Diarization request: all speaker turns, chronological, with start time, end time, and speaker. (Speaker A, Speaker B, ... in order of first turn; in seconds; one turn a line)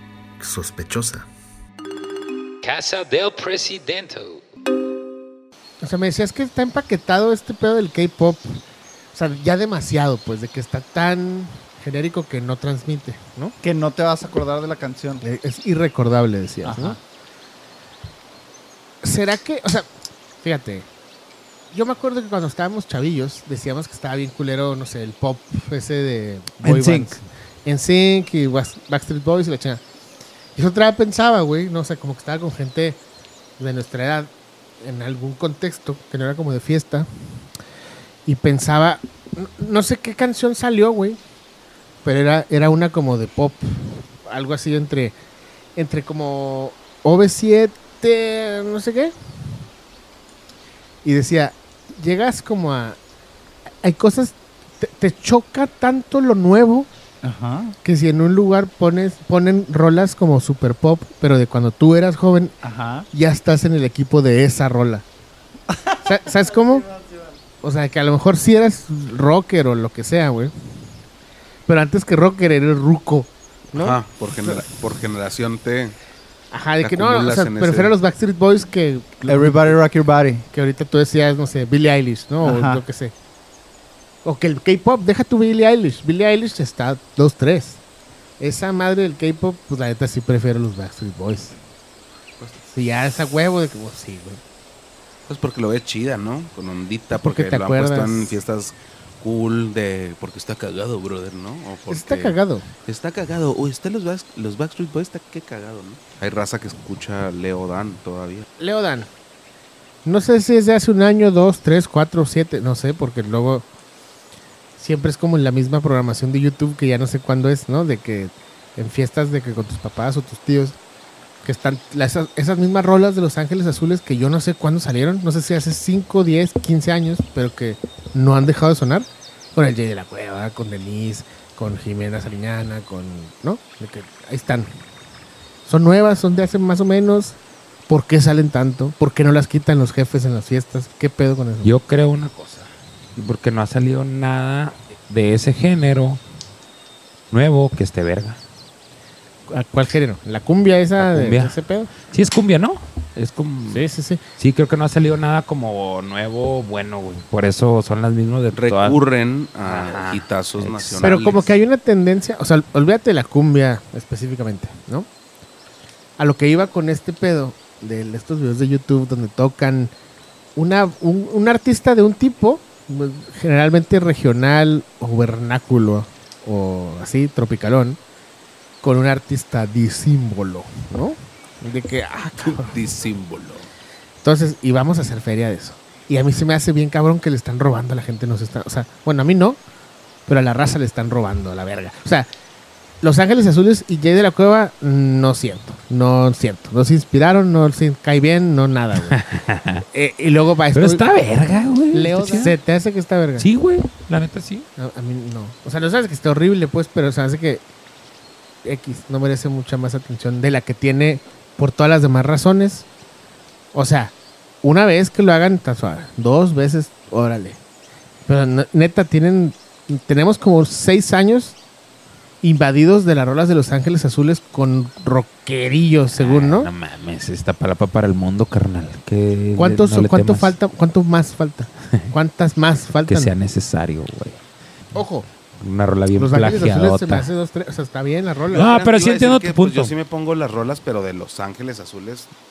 Speaker A: 0.4-1.2
Speaker B: 2.6-4.4
Speaker C: 5.8-8.6
Speaker C: 9.1-13.6
Speaker A: 13.6-15.2
Speaker C: 15.2-17.0
Speaker A: 16.6-17.0
Speaker C: 19.0-19.9
Speaker C: 20.4-20.9
Speaker C: 21.7-29.8
Speaker A: 26.6-27.2
Speaker C: 30.6-33.0
Speaker C: 33.6-37.1
Speaker C: 38.3-41.2
Speaker C: 42.0-45.2
Speaker C: 45.8-49.1
Speaker C: 51.0-53.0
Speaker C: 53.8-56.9
Speaker A: 57.2-57.8
Speaker C: 57.8-62.6
Speaker A: 62.6-63.1
Speaker C: 63.1-65.0
Speaker A: 65.7-66.0
Speaker C: 66.0-66.9
Speaker C: 67.6-70.5
Speaker C: 71.7-74.6
Speaker D: 73.8-76.0
Speaker C: 76.5-79.8
Speaker D: 76.8-77.9
Speaker A: 79.2-80.5
Speaker C: 80.5-83.1
Speaker A: 82.4-82.8
Speaker C: 84.2-87.8
Speaker C: 88.4-91.6
Speaker C: 92.7-94.4
Speaker D: 95.3-108.5
Speaker C: 97.2-98.3
Speaker C: 101.9-102.7
Speaker C: 108.6-109.1
Speaker C: 110.0-113.7
Speaker C: 114.8-120.8
Speaker C: 121.4-134.7
Speaker C: 135.7-141.8
Speaker B: 141.6-146.2
Speaker B: 147.3-148.4
Speaker C: 149.5-151.9
Speaker B: 151.0-153.8
Speaker C: 153.7-154.2
Speaker B: 154.4-159.0
Speaker D: 158.5-161.5
Speaker B: 159.6-161.4
Speaker C: 161.0-165.1
Speaker C: 166.2-169.9
Speaker C: 170.6-178.0
Speaker C: 178.8-182.8
Speaker D: 182.4-183.7
Speaker C: 184.2-189.6
Speaker C: 190.3-192.3
Speaker C: 193.0-199.2
Speaker B: 199.1-199.8
Speaker C: 199.8-201.1
Speaker B: 200.7-202.6
Speaker C: 201.9-203.5
Speaker B: 203.4-204.7
Speaker C: 204.8-207.6
Speaker C: 208.6-212.9
Speaker C: 213.7-217.6
Speaker C: 218.3-221.6
Speaker C: 222.4-226.7
Speaker B: 226.1-230.6
Speaker C: 229.6-233.3
Speaker B: 233.0-234.4
Speaker C: 234.9-235.3
Speaker B: 235.6-237.3
Speaker C: 236.2-238.7
Speaker B: 238.5-239.9
Speaker D: 238.5-242.3